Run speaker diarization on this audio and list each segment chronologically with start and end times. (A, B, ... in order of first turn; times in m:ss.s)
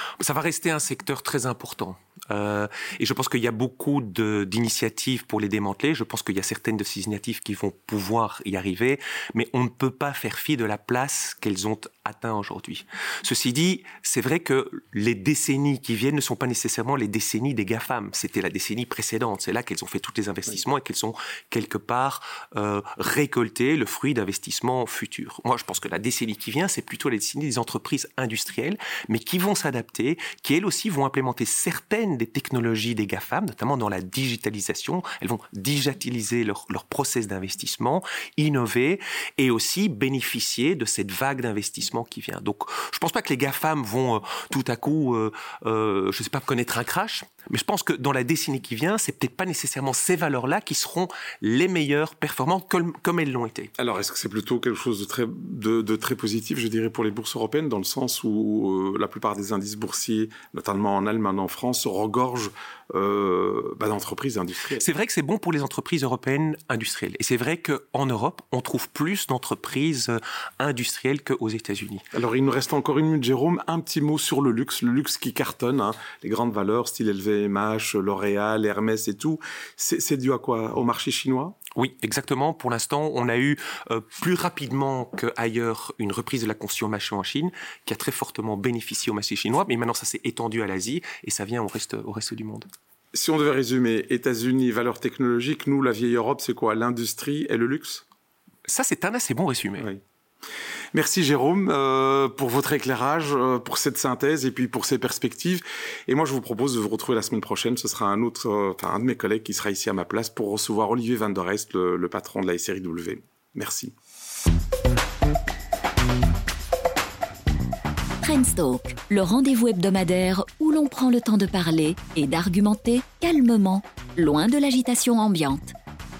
0:00.2-0:53.7 A
0:53.8-1:04.8 B
1:04.8-1:12.0 A
1:12.1-1:21.6 B
1:21.8-1:32.7 A
1:33.1-1:38.0 B
1:38.6-1:39.9 A
1:40.9-1:53.9 B
1:58.2-2:05.8 C